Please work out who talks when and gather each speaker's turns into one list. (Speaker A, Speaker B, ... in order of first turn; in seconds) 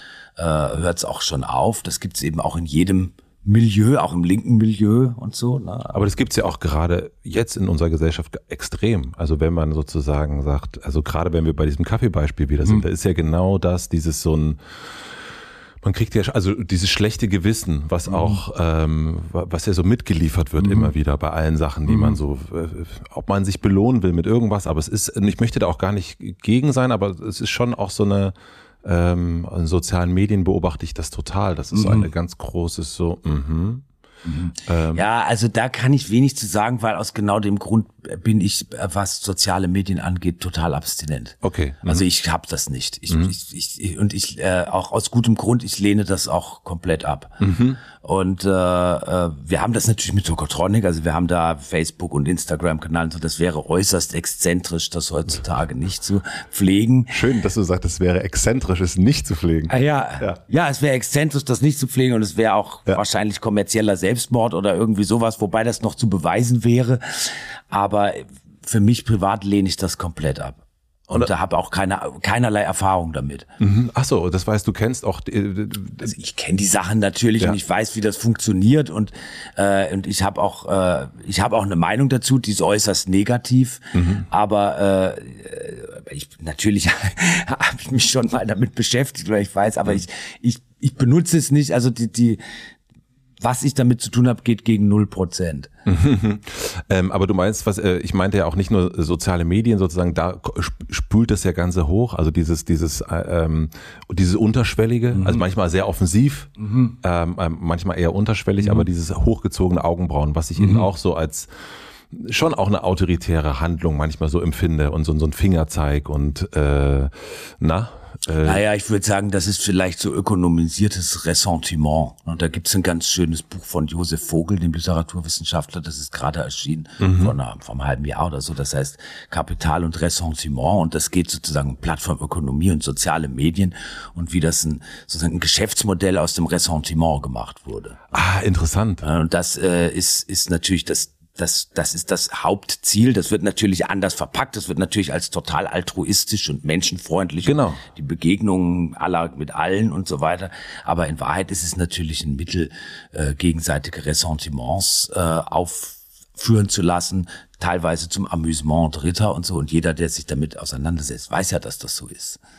Speaker A: 0.4-6.0, 18.1-18.4, 20.6-20.9, 21.9-22.2, 31.7-32.1, 34.2-57.1, 59.7-73.5, 76.0-92.4, 93.4-95.7, 105.1-105.4, 106.6-107.0, 108.6-108.9, 110.6-110.9, 118.4-138.0, 139.0-162.4
Speaker B: 5.9-15.1, 15.8-28.3, 28.8-33.9, 34.7-35.0, 41.4-42.0, 47.4-47.8, 57.1-60.4, 73.6-76.1, 83.9-84.3, 95.8-111.5, 112.1-118.6, 127.0-127.3, 138.1-139.0, 147.4-147.8